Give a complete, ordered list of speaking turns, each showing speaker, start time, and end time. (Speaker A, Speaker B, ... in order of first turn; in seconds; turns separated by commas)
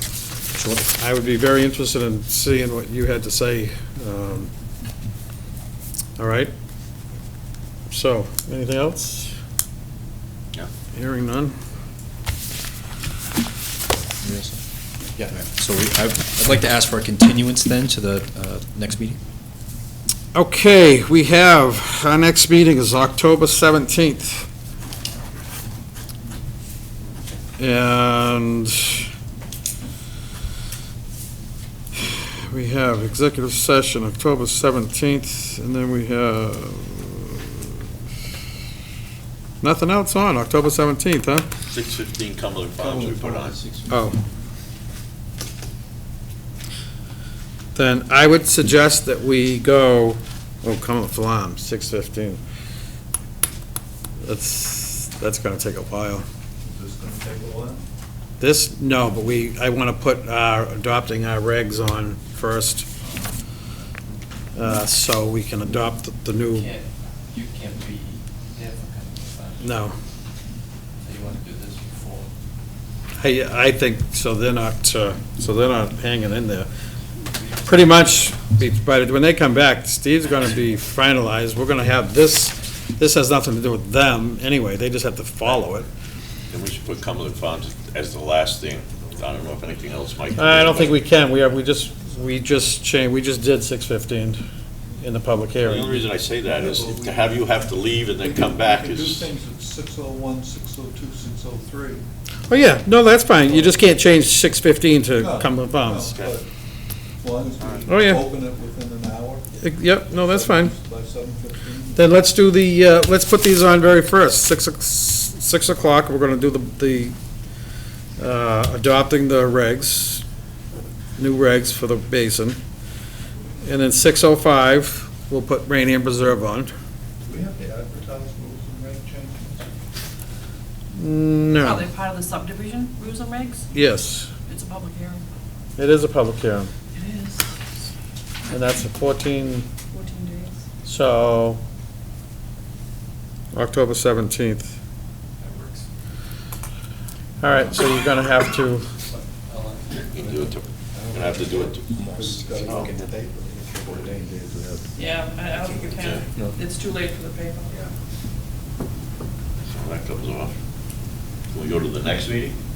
Speaker A: 0.6-0.8, Speaker B: 0.9-4.5, Speaker B: 6.2-6.5, Speaker B: 7.9-9.3, Speaker B: 10.9-11.6, Speaker A: 14.2-14.6, Speaker A: 15.2-19.2, Speaker B: 20.3-24.4, Speaker B: 27.6-29.1, Speaker B: 32.0-37.7, Speaker B: 39.6-41.5, Speaker C: 41.7-43.6, Speaker D: 43.0-43.6, Speaker B: 43.9-44.2, Speaker B: 47.7-52.4, Speaker B: 54.2-56.2, Speaker D: 56.6-57.8, Speaker B: 58.4-62.9, Speaker B: 64.5-66.7, Speaker E: 67.4-69.6, Speaker B: 69.6-69.9, Speaker E: 71.2-72.0, Speaker B: 73.2-76.7, Speaker B: 77.6-85.9, Speaker E: 77.8-78.1, Speaker C: 86.5-91.0, Speaker B: 90.3-94.4, Speaker B: 95.0-96.0, Speaker C: 95.6-99.2, Speaker D: 96.6-102.0, Speaker B: 102.5-106.1, Speaker D: 103.5-103.8, Speaker D: 105.2-106.5, Speaker C: 106.1-106.4, Speaker D: 107.2-109.5, Speaker C: 107.6-107.9, Speaker B: 107.9-108.2, Speaker B: 109.6-110.7, Speaker D: 110.1-112.1, Speaker B: 111.9-117.1, Speaker B: 118.2-120.2, Speaker B: 121.2-122.6, Speaker B: 123.6-126.7, Speaker D: 127.2-129.7, Speaker B: 130.9-131.9, Speaker F: 131.6-133.7, Speaker B: 133.7-134.3, Speaker F: 134.4-135.2, Speaker B: 135.8-136.7, Speaker F: 136.9-137.4, Speaker B: 138.5-139.7, Speaker F: 139.9-140.6, Speaker B: 140.8-141.6, Speaker B: 143.5-144.7, Speaker E: 145.4-145.8, Speaker B: 147.4-148.9, Speaker C: 149.9-152.9, Speaker D: 150.2-154.8, Speaker A: 151.9-152.8, Speaker F: 154.9-157.7, Speaker C: 155.8-156.2, Speaker C: 159.7-160.5, Speaker C: 161.5-162.5